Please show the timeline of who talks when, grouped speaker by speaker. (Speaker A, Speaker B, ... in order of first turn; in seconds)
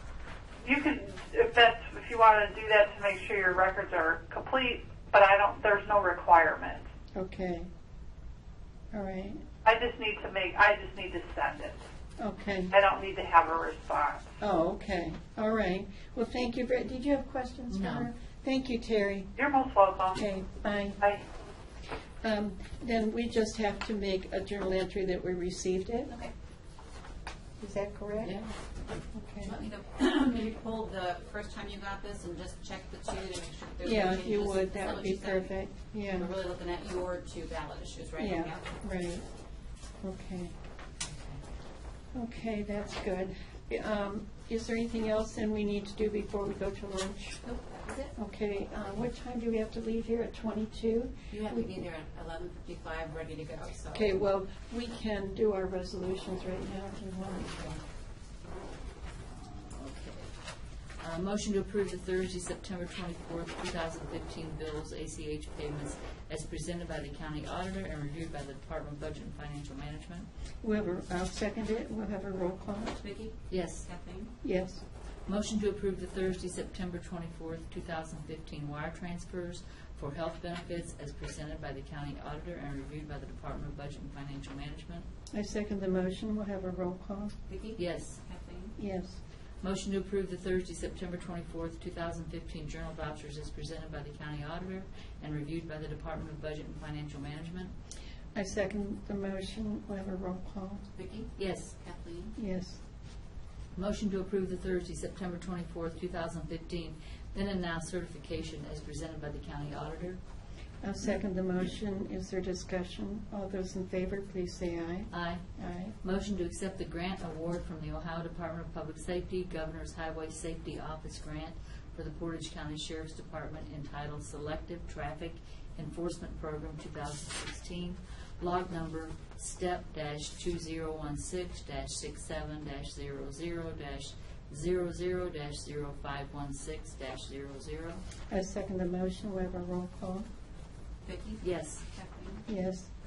Speaker A: 0.6-6.8, 9.6-11.8, 12.7-14.2, 19.4-20.2, 21.0-21.2
Speaker B: 7.1-7.7, 8.9-9.4, 12.2-12.7, 14.4-19.3, 20.1-21.0, 22.2-26.1, 27.6-28.4, 29.1-29.5, 33.8-36.3, 38.2-39.2, 40.0-40.5, 42.1-47.4, 48.1-51.7, 53.9-57.8, 70.6-73.0, 74.4-74.8, 85.3-87.3, 88.8-89.2, 98.3-100.8, 102.3-102.8, 110.8-115.9, 138.3-140.3, 142.4-142.9
Speaker C: 17.7-18.1, 41.0-41.4, 59.2-60.3, 61.0-70.3, 73.5-73.9, 75.2-85.1, 87.8-88.2, 89.6-97.7, 101.4-101.8, 103.7-110.2, 115.1-115.4, 116.0-138.0, 141.4-141.9
Speaker D: 29.4-35.5, 36.1-38.8, 47.4-48.1, 51.3-54.2, 73.0-74.3, 87.5-88.7, 101.0-102.3, 141.0-142.4